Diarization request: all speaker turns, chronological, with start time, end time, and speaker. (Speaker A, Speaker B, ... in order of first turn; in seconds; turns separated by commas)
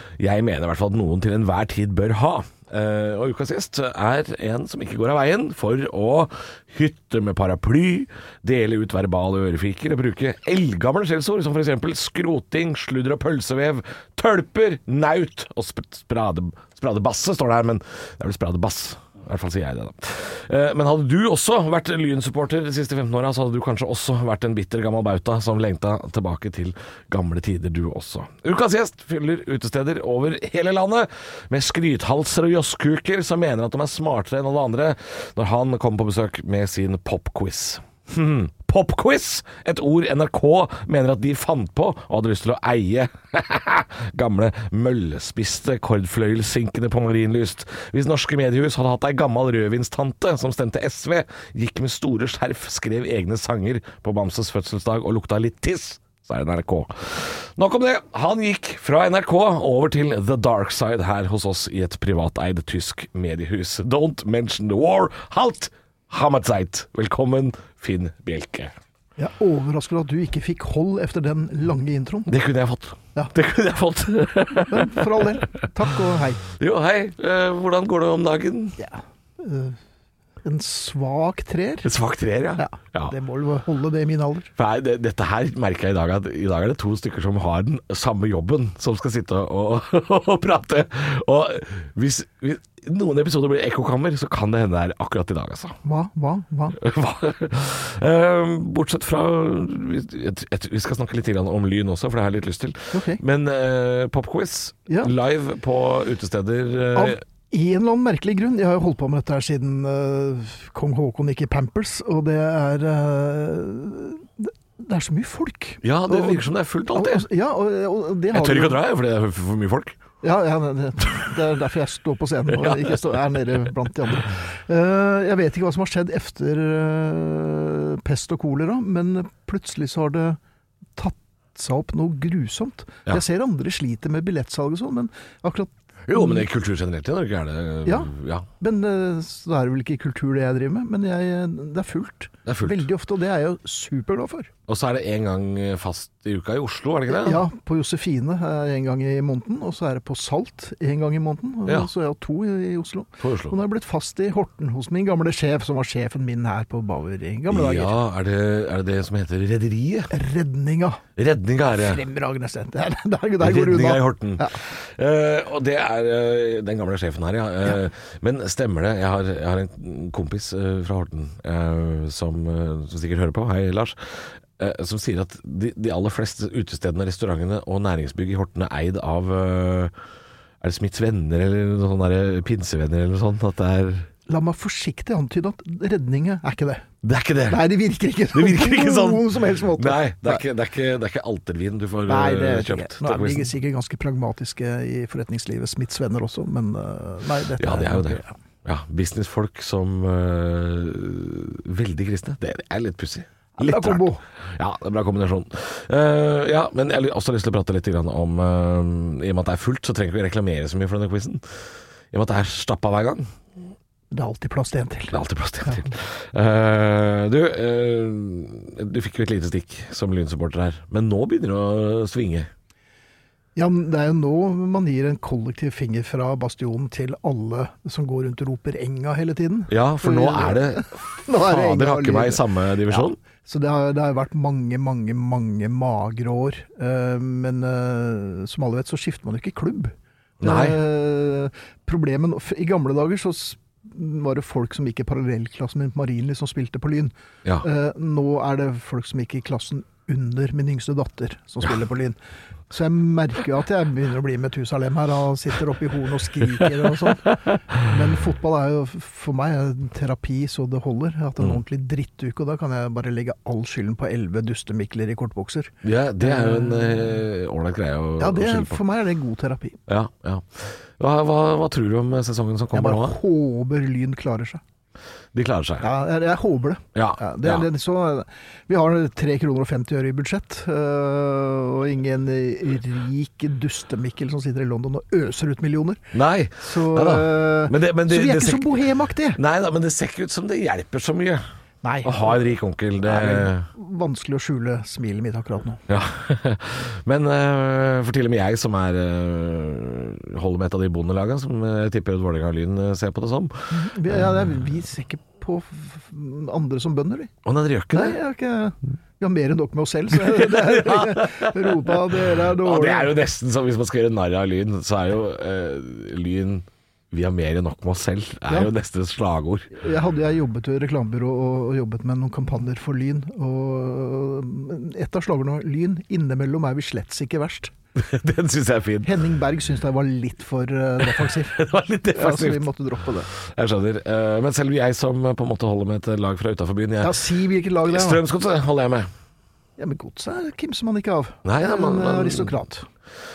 Speaker A: 0.2-68.7, Speaker B: 69.2-72.3, Speaker A: 72.3-75.5, Speaker B: 74.7-76.4, Speaker A: 76.4-78.8, Speaker B: 78.8-79.8, Speaker B: 80.4-81.9, Speaker A: 81.8-83.1, Speaker B: 82.6-84.5, Speaker A: 84.5-95.8, Speaker B: 95.8-96.8, Speaker A: 96.8-107.2, Speaker B: 102.9-103.2, Speaker B: 104.9-105.1, Speaker B: 106.9-118.8, Speaker A: 115.8-117.2, Speaker A: 118.3-120.0, Speaker B: 120.2-130.4, Speaker A: 122.5-123.0, Speaker B: 130.9-136.4, Speaker A: 136.1-138.5, Speaker B: 137.8-144.5, Speaker A: 142.4-142.8, Speaker A: 144.7-147.4, Speaker B: 147.1-157.9, Speaker A: 153.2-153.5, Speaker A: 157.5-160.1, Speaker B: 160.1-161.0, Speaker A: 161.2-162.0, Speaker B: 161.7-164.6, Speaker A: 163.4-179.9, Speaker A: 180.6-184.1, Speaker B: 184.3-186.8, Speaker A: 187.0-187.6, Speaker B: 187.5-190.4, Speaker A: 188.3-193.5, Speaker B: 192.1-198.4, Speaker A: 197.6-211.5, Speaker B: 203.6-204.2, Speaker A: 212.1-213.3, Speaker B: 214.1-215.9, Speaker A: 215.1-222.5, Speaker B: 223.6-252.2, Speaker A: 229.7-233.2, Speaker A: 240.4-240.8, Speaker B: 252.7-267.2, Speaker A: 265.8-268.8, Speaker B: 268.2-269.8, Speaker A: 269.9-273.1, Speaker B: 272.7-274.6, Speaker A: 275.3-275.9, Speaker B: 275.8-286.0, Speaker A: 276.9-277.6, Speaker A: 286.1-291.4, Speaker B: 286.6-289.4, Speaker B: 291.8-292.4, Speaker A: 292.0-293.7, Speaker B: 293.0-295.8, Speaker A: 295.9-304.2, Speaker B: 303.7-307.3, Speaker A: 307.4-308.2, Speaker B: 307.9-313.1, Speaker A: 310.1-319.7, Speaker B: 319.7-327.7, Speaker A: 327.9-329.2, Speaker B: 329.0-331.6, Speaker A: 331.0-332.7, Speaker B: 332.1-333.3, Speaker A: 333.3-337.2, Speaker B: 337.0-338.2, Speaker A: 337.9-339.1, Speaker B: 339.8-342.9, Speaker A: 341.4-342.6